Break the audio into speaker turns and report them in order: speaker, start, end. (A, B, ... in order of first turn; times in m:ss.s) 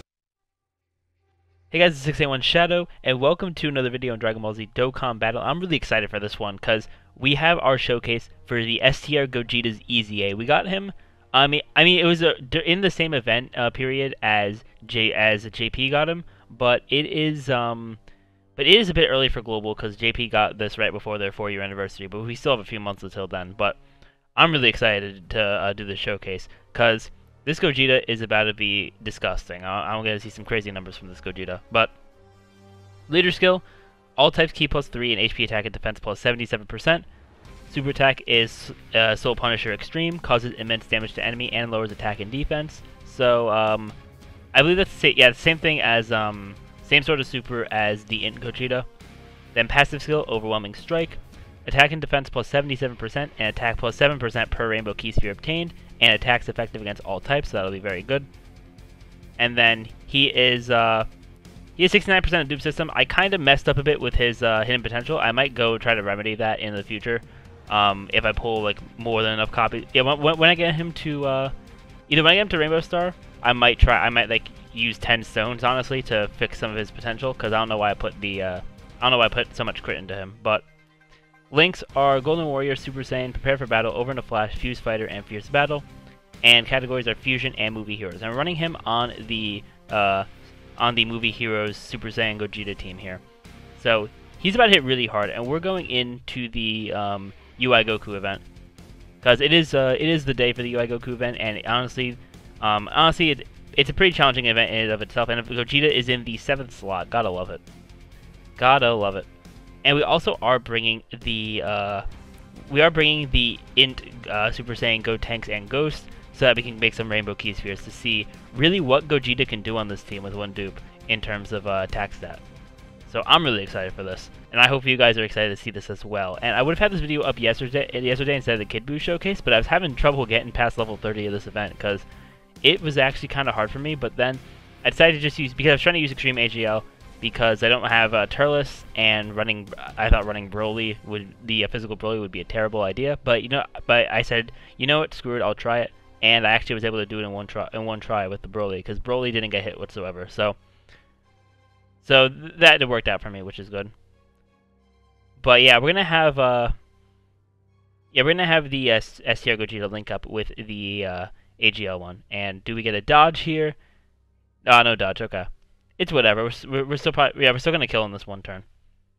0:01.7-0:18.0 A
0:18.6-0:23.8 A
0:24.4-0:31.9 A
0:33.1-0:33.6 A
0:34.2-0:37.0 A
0:37.7-0:44.0 A
0:44.5-0:48.9 A
0:49.5-0:58.3 A
0:59.4-1:01.1 A
1:01.8-1:11.5 A
1:12.1-1:20.6 A
1:21.5-1:25.9 A
1:26.4-1:33.2 A
1:33.8-1:38.4 A
1:39.2-1:47.6 A
1:48.6-1:49.3 A
1:49.8-1:52.0 A
1:52.6-2:02.4 A
2:03.1-2:12.1 A
2:12.6-2:30.6 A
2:32.0-2:33.9 A
2:35.4-2:36.7 A
2:38.1-2:43.8 A
2:44.6-2:48.6 A